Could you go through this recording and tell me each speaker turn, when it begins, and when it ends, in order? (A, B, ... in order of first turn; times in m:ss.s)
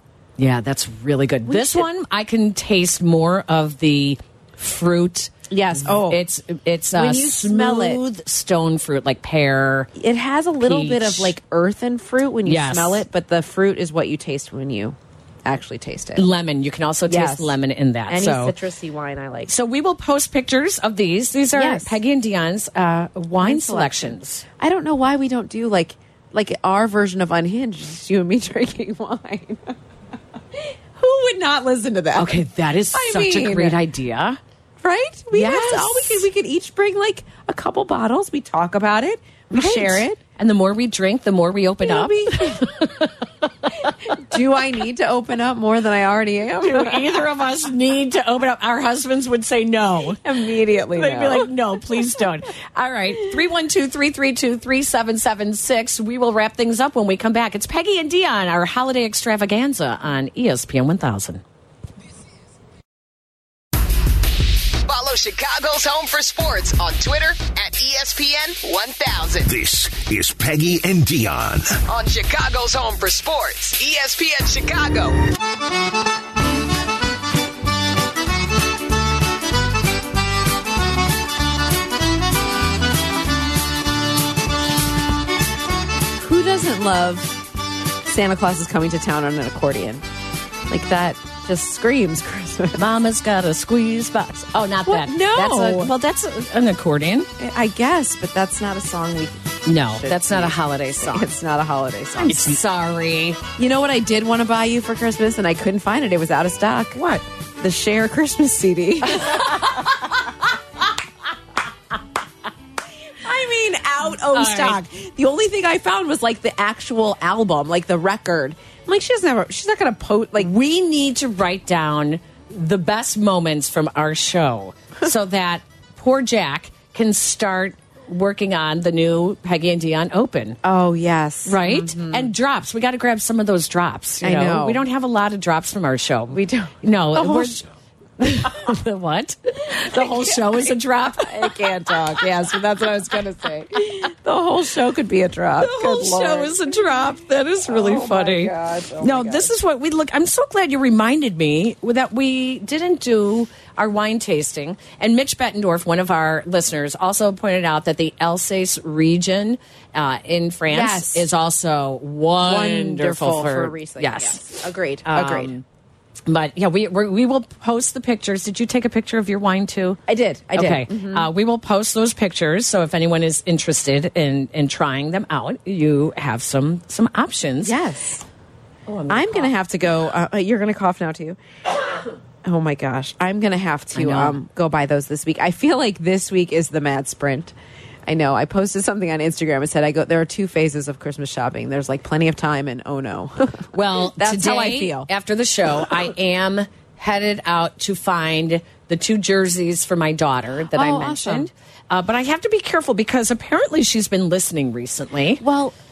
0:00.4-0:05.4 A
0:01.5-0:01.9 B
0:05.5-0:06.2 B
0:06.1-0:09.9 A
0:07.0-0:08.0 B
0:10.0-0:16.3 B
0:10.6-0:11.4 A
0:12.5-0:13.0 A
0:16.2-0:18.6 A
0:17.1-0:17.6 B
0:18.1-0:19.5 B
0:19.5-0:24.4 A
0:21.5-0:22.0 B
0:23.4-0:29.8 B
0:30.5-0:33.8 B
0:32.2-0:34.4 A
0:34.8-0:40.2 B
0:35.3-0:36.3 A
0:39.5-0:43.1 A
0:41.8-0:42.7 B
0:44.1-0:47.1 B
0:46.6-0:50.2 A
0:50.2-0:51.5 B
0:50.9-1:01.4 A
1:04.9-1:09.5 C
1:09.5-1:11.8 D
1:11.9-1:15.2 C
1:26.2-1:27.4 B
1:28.0-1:30.0 B
1:30.7-1:32.8 B
1:32.8-1:37.3 A
1:34.9-1:35.9 B
1:37.4-1:42.6 B
1:39.6-1:41.3 A
1:42.2-1:43.4 A
1:43.6-1:47.0 B
1:47.0-1:47.2 A
1:47.6-1:49.8 B
1:53.2-2:00.5 B
1:54.3-1:54.8 A
2:00.4-2:10.6 A
2:10.6-2:12.3 B
2:11.5-2:17.7 A
2:14.2-2:14.8 B
2:16.3-2:17.6 B
2:18.2-2:21.9 A
2:19.9-2:26.8 B
2:25.6-2:45.6 A
2:27.6-2:29.5 B
2:40.7-2:41.3 B
2:42.4-2:45.5 B
2:46.3-2:50.0 A
2:50.1-2:51.3 B
2:50.6-2:57.8 A
2:57.6-2:58.3 B
2:58.9-2:59.5 A
2:59.1-3:01.4 B
3:02.4-3:07.5 B
3:04.0-3:04.4 A
3:08.1-3:15.1 B
3:13.7-3:25.4 A
3:20.7-3:21.5 B
3:25.4-3:25.7 B